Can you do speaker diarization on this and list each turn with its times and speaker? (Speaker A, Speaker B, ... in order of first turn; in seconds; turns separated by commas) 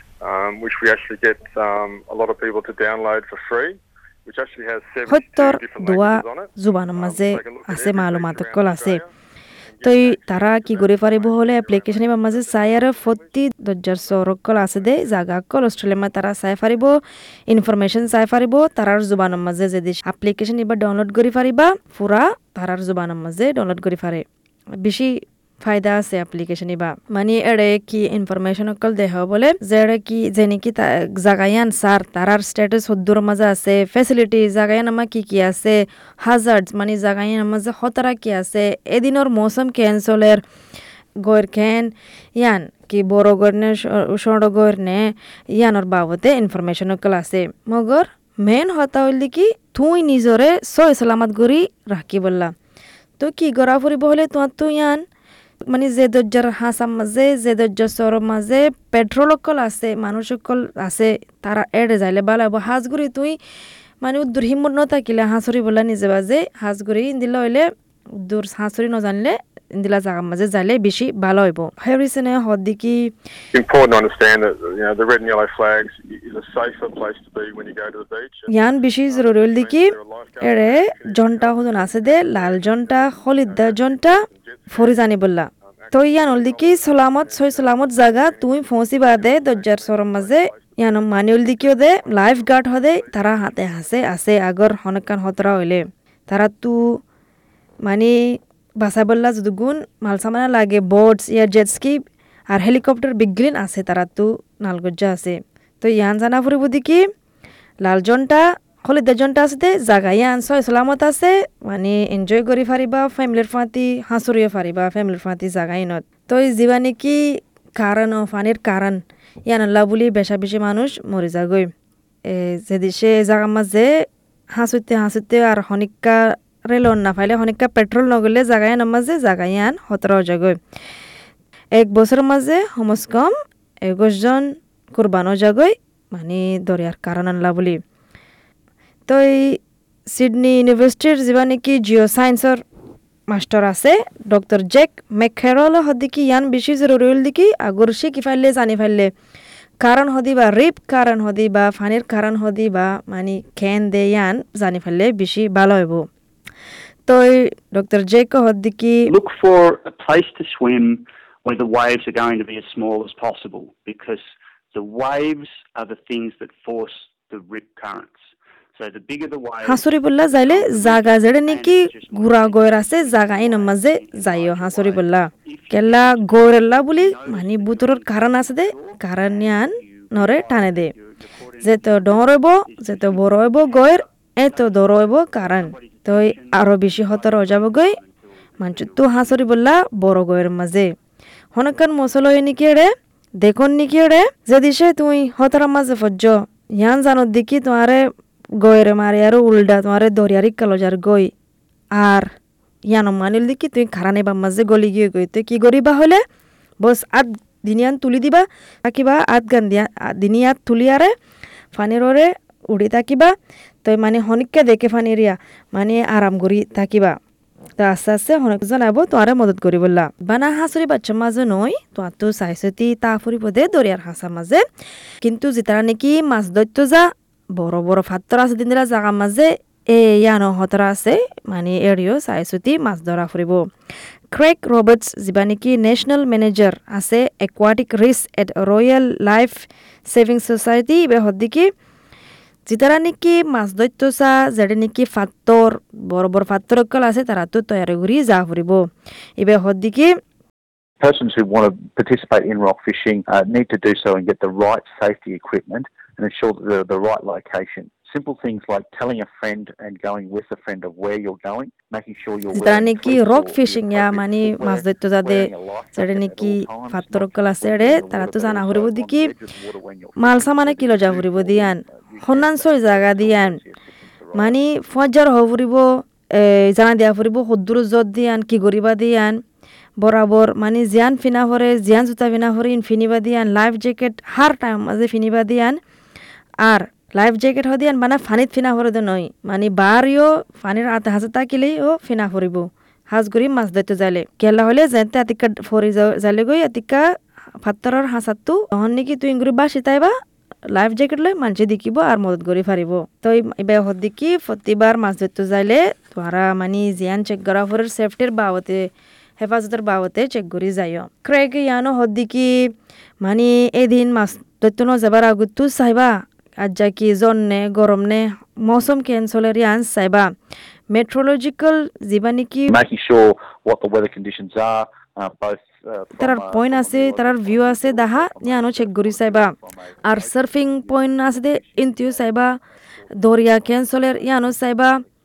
Speaker A: 0.2-9.1, Speaker B: 5.1-9.0, Speaker A: 9.7-15.2, Speaker B: 9.8-24.2, Speaker B: 24.8-40.4, Speaker B: 41.2-52.5, Speaker B: 53.2-55.0, Speaker B: 55.7-63.4, Speaker B: 64.0-67.7, Speaker B: 68.2-73.1, Speaker A: 73.5-85.0, Speaker B: 78.5-97.0, Speaker A: 85.7-94.1, Speaker B: 97.9-107.0, Speaker B: 107.8-121.7, Speaker B: 122.3-130.6, Speaker B: 131.8-137.8, Speaker B: 139.1-142.6, Speaker B: 143.3-149.1, Speaker B: 149.8-156.1, Speaker B: 157.1-159.1, Speaker C: 159.1-164.2, Speaker C: 164.7-168.2, Speaker C: 168.8-169.8, Speaker B: 169.7-180.9, Speaker C: 170.4-189.5, Speaker B: 181.6-188.0, Speaker B: 188.6-190.9, Speaker B: 191.5-198.1, Speaker B: 198.6-201.3, Speaker B: 201.9-202.3, Speaker B: 202.9-206.2, Speaker B: 206.8-211.1, Speaker B: 211.7-213.3, Speaker B: 213.8-217.2, Speaker B: 217.8-224.6, Speaker B: 225.2-233.7, Speaker B: 234.3-241.7, Speaker B: 242.7-250.2, Speaker D: 251.0-274.6, Speaker B: 262.5-269.3, Speaker B: 270.2-273.6, Speaker B: 274.4-279.4, Speaker B: 280.0-285.8, Speaker B: 286.6-297.1, Speaker B: 297.6-300.1, Speaker B: 300.7-320.3, Speaker B: 320.9-322.8, Speaker D: 322.7-332.4, Speaker B: 326.2-332.6, Speaker B: 333.2-335.0, Speaker D: 333.2-334.4